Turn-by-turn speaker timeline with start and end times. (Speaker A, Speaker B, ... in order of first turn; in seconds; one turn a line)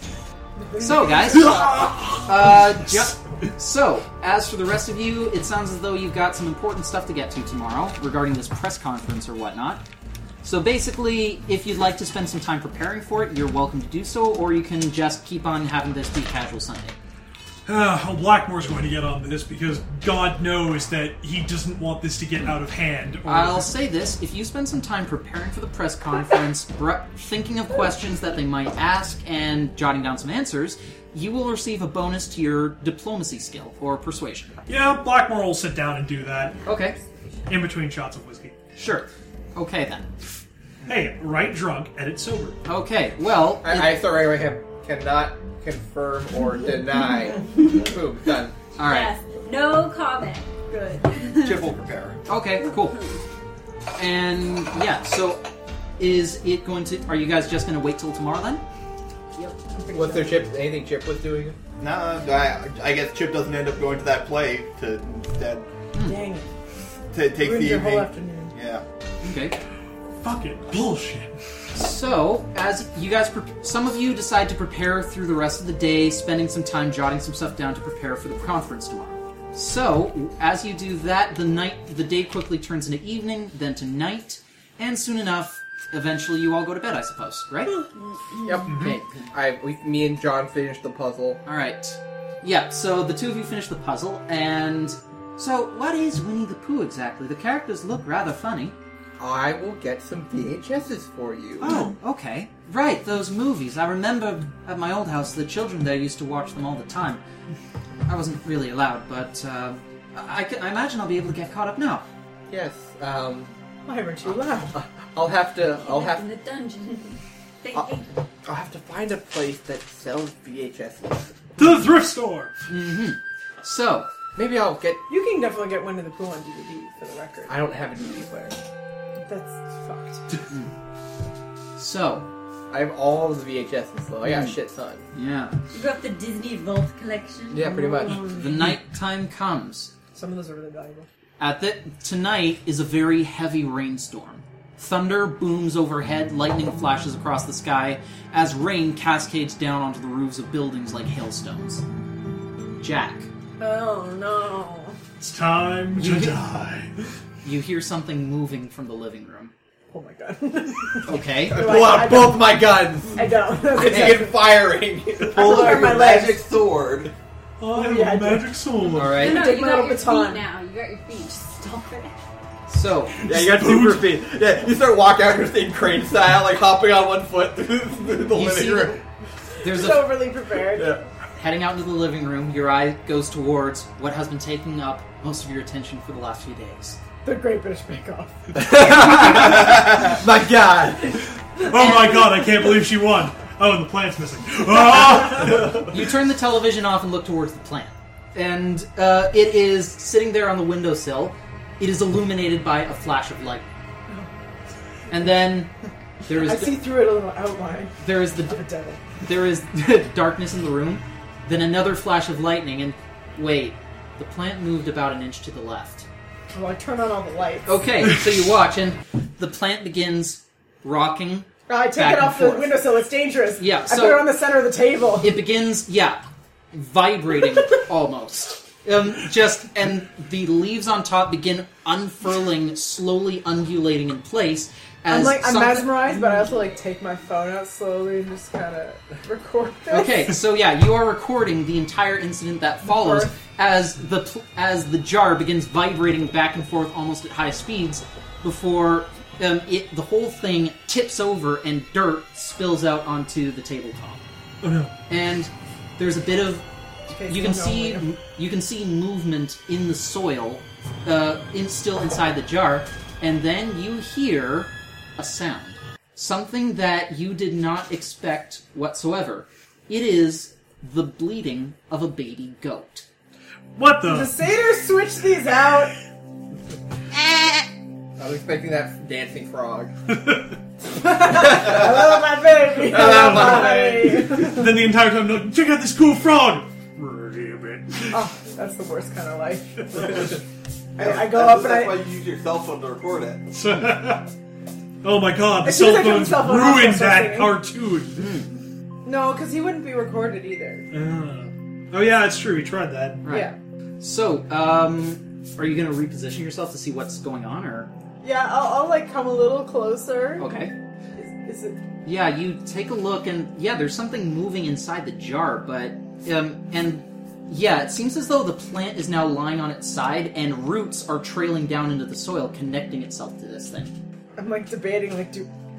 Speaker A: 0.6-2.1
Speaker B: 0.8-1.7
Speaker C: 1.3-3.1
Speaker B: 2.2-9.8
Speaker B: 10.4-16.9
Speaker C: 17.7-23.7
Speaker B: 23.3-34.5
Speaker C: 34.7-36.6
Speaker B: 36.6-37.0
Speaker C: 37.5-38.6
Speaker B: 38.8-40.1
Speaker C: 40.9-42.6
Speaker B: 42.6-44.0
Speaker D: 43.6-48.6
Speaker B: 48.8-49.1
Speaker E: 48.8-51.7
Speaker F: 51.4-52.2
Speaker B: 52.3-53.0
Speaker E: 52.8-53.2
Speaker B: 54.0-55.5
Speaker B: 56.0-58.6
Speaker E: 59.4-59.6
Speaker A: 59.8-60.5
Speaker D: 59.9-61.6
Speaker F: 61.8-65.7
Speaker B: 66.0-66.2
Speaker A: 66.0-66.5
Speaker F: 67.1-68.8
Speaker A: 67.4-68.5
Speaker B: 69.2-69.5
Speaker C: 70.2-71.3
Speaker B: 71.7-87.8
Speaker D: 88.4-91.4
Speaker C: 88.7-89.0
Speaker B: 88.7-89.3
Speaker B: 91.5-98.8
Speaker D: 99.2-101.8
Speaker B: 101.6-107.2
Speaker B: 108.1-112.1
Speaker D: 112.5-113.5
Speaker A: 113.9-114.8
Speaker D: 114.7-116.3
Speaker E: 115.8-118.1
Speaker D: 118.5-121.4
Speaker C: 121.6-122.5
Speaker B: 122.7-124.1
Speaker D: 124.3-125.1
Speaker A: 125.1-127.6
Speaker D: 127.5-128.6
Speaker A: 129.2-130.2
Speaker B: 131.8-132.3
Speaker D: 132.7-135.1
Speaker B: 134.2-134.6
Speaker B: 135.1-135.6
Speaker E: 135.7-137.7
Speaker D: 137.5-138.4
Speaker A: 137.7-138.7
Speaker B: 138.2-139.9
Speaker A: 140.1-141.1
Speaker B: 141.4-151.8
Speaker B: 152.8-153.3
Speaker A: 153.6-155.0
Speaker C: 155.2-156.9
Speaker B: 156.0-156.4
Speaker B: 157.4-159.5
Speaker A: 159.9-164.4
Speaker B: 161.1-161.7
Speaker D: 161.1-166.1
Speaker A: 165.3-166.5
Speaker F: 165.3-167.1
Speaker C: 167.6-169.2
Speaker A: 167.7-168.6
Speaker B: 168.9-169.5
Speaker A: 169.1-170.4
Speaker E: 169.1-172.2
Speaker B: 172.7-173.2
Speaker C: 173.2-174.2
Speaker D: 173.2-179.0
Speaker B: 178.3-179.0
Speaker B: 179.6-180.2
Speaker A: 179.6-181.0
Speaker D: 180.7-181.0
Speaker B: 181.4-187.0
Speaker A: 187.2-189.2
Speaker D: 188.6-191.3
Speaker C: 191.6-195.9
Speaker E: 191.8-192.5
Speaker B: 195.8-203.7
Speaker B: 205.1-205.7
Speaker B: 206.3-206.8
Speaker A: 206.3-209.0
Speaker B: 208.0-208.6
Speaker B: 209.2-216.1
Speaker A: 216.5-217.8
Speaker B: 217.7-222.8
Speaker A: 221.7-225.4
Speaker B: 223.6-224.3
Speaker B: 225.2-236.2
Speaker A: 235.1-240.4
Speaker B: 239.9-254.2
Speaker A: 242.8-243.3
Speaker C: 254.6-254.9
Speaker B: 255.1-256.6
Speaker A: 257.1-258.1
Speaker B: 257.2-273.1
Speaker C: 273.8-274.3
Speaker A: 274.0-275.9
Speaker D: 278.2-279.9
Speaker C: 280.1-280.6
Speaker A: 280.9-284.7
Speaker D: 281.6-282.1
Speaker D: 282.8-284.4
Speaker C: 282.9-288.2
Speaker A: 288.1-290.4
Speaker A: 291.0-292.0
Speaker F: 291.0-293.5
Speaker C: 293.5-294.3
Speaker C: 295.0-298.3
Speaker A: 295.6-297.7
Speaker B: 298.2-298.5
Speaker A: 299.1-300.9
Speaker C: 300.9-303.2
Speaker B: 303.2-307.9
Speaker A: 303.2-303.6
Speaker A: 308.2-310.5
Speaker B: 310.4-310.7
Speaker A: 311.1-311.8
Speaker B: 312.1-323.9
Speaker A: 324.4-325.5